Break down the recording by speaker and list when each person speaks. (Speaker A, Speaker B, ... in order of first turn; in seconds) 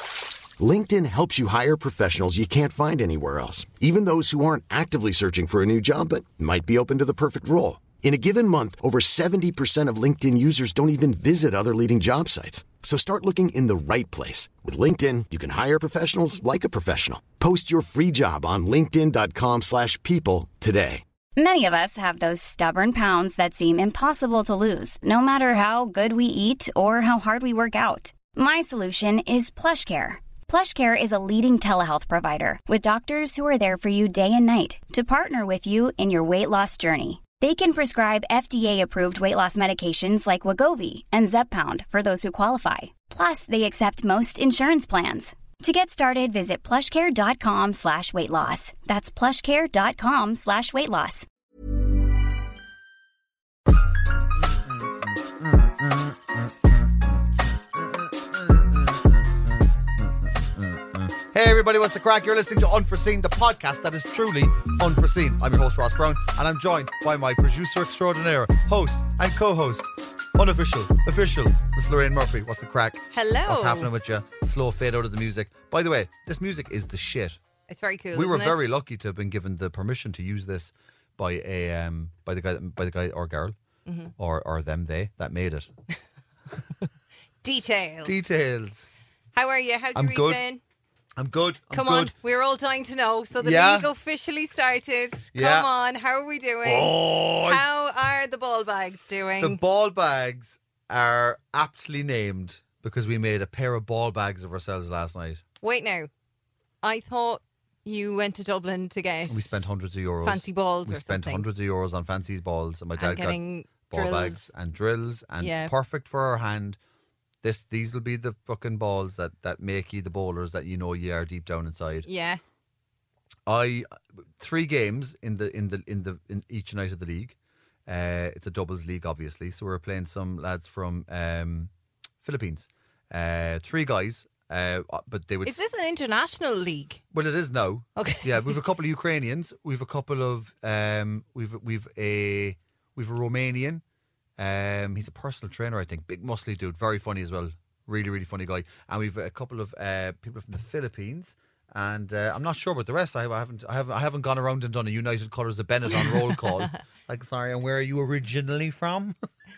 Speaker A: 0.6-21.0
Speaker B: 21.4-51.2
Speaker C: 54.4-57.2, 57.7-77.4, 78.1-83.5, 84.2-85.7, 88.0-88.9, 89.9-90.4, 91.2-92.1, 93.4-93.9, 95.3-95.7, 96.6-97.6, 99.4-105.4, 109.3-116.8, 117.4-122.1, 123.5-127.3, 127.9-131.7, 132.2-135.6, 137.1-143.8, 144.4-159.2
Speaker D: 73.1-73.9, 77.7-78.6, 83.8-84.1, 87.4-88.1, 89.3-90.6, 91.7-99.6, 105.6-106.1, 106.8-109.7, 110.2-111.5, 113.0-114.5, 115.4-115.7, 122.0-122.4, 135.4-137.0, 138.0-138.6